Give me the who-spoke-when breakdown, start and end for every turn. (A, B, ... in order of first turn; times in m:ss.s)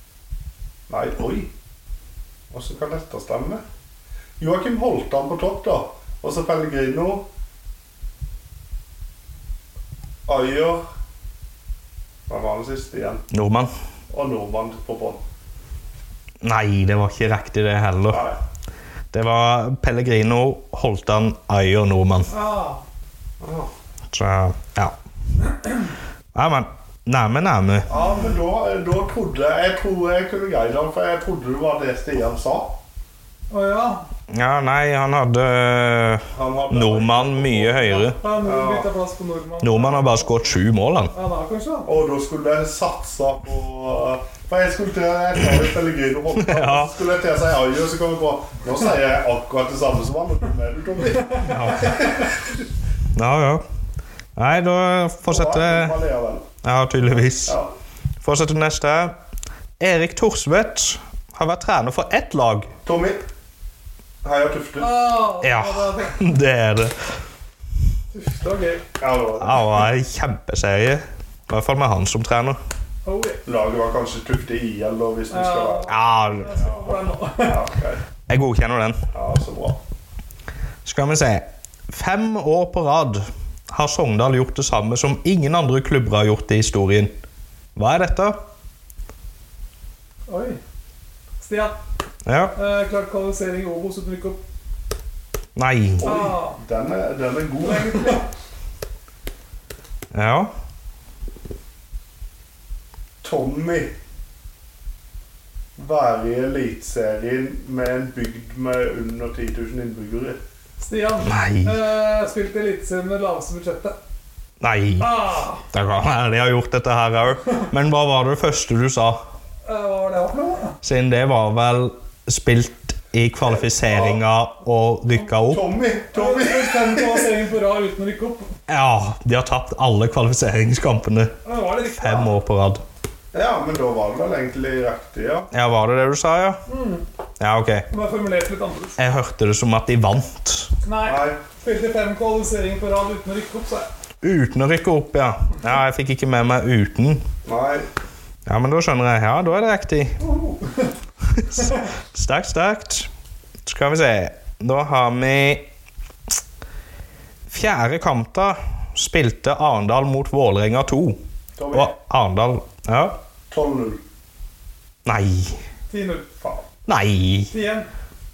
0:00.9-0:01.5 A
0:02.5-0:03.6 A
0:04.4-0:07.2 A
0:10.3-0:10.8 A
0:12.3-0:13.2 A
0:13.3-0:13.7 B
0:14.1-0:15.2 A
0:16.4-0:18.3 B
0:18.1-0:18.4 A
0:19.1-0:22.3 B
0:22.3-0:22.8 C
0:23.4-0:23.7 A
0:24.1-0:25.0 B
0:26.4-0:27.9 B
0:27.9-0:32.8 A
0:27.9-0:28.4 C
0:33.5-0:34.0 C
0:34.3-0:38.2 B
0:36.3-0:38.9 A
0:38.2-0:40.6 C
0:39.6-0:41.1 B
0:41.1-0:41.9 C
0:41.9-0:52.4 A
0:46.4-0:46.9 B
0:51.4-0:52.1 B
0:53.2-0:53.6 B
0:54.4-0:56.0 B
0:55.2-0:56.5 A
0:56.6-0:57.6 B
0:57.4-0:57.7 A
0:58.2-0:59.2 B
0:59.8-1:02.7 B
1:02.8-1:03.2 A
1:04.2-1:05.1 A
1:04.8-1:06.4 C
1:05.4-1:07.0 B
1:08.1-1:08.8 C
1:09.0-1:09.9 A
1:09.4-1:12.6 B
1:13.0-1:13.4 C
1:13.4-1:18.0 A
1:15.3-1:17.6 C
1:15.9-1:16.6 B
1:18.3-1:19.0 B
1:19.1-1:19.8 A
1:20.8-1:27.1 B
1:27.8-1:28.4 B
1:30.3-1:30.6 C
1:31.4-1:31.8 C
1:32.3-1:32.6 B
1:32.5-1:34.4 C
1:35.6-1:36.1 B
1:36.0-1:38.2 A
1:36.0-1:36.6 C
1:37.6-1:38.2 C
1:40.1-1:40.5 B
1:43.2-1:43.9 A
1:45.8-1:50.4 A
1:50.8-1:54.0 C
1:51.2-1:51.8 B
1:54.6-1:59.2 B
1:55.0-1:55.6 C
1:59.6-2:00.8 C
2:00.8-2:05.6 B
2:03.4-2:04.2 A
2:05.5-2:07.3 A
2:06.1-2:08.5 C
2:08.7-2:11.3 B
2:11.4-2:12.4 C
2:11.8-2:12.8 B
2:13.3-2:15.5 A
2:15.5-2:16.6 B
2:16.7-2:17.0 C
2:17.4-2:17.9 B
2:17.9-2:19.0 C
2:19.0-2:20.7 B
2:20.8-2:23.9 C
2:21.0-2:21.4 A
2:24.2-2:27.2 B
2:27.5-2:27.9 A
2:28.5-2:30.2 B
2:30.2-2:30.9 C
2:31.4-2:33.1 B
2:33.7-2:35.7 B
2:37.5-2:41.2 B
2:41.6-2:42.0 A
2:41.7-2:43.2 B
2:43.5-2:44.0 A
2:45.0-2:45.6 B
2:45.9-2:46.3 C
2:46.9-2:47.5 B
2:47.5-2:47.9 C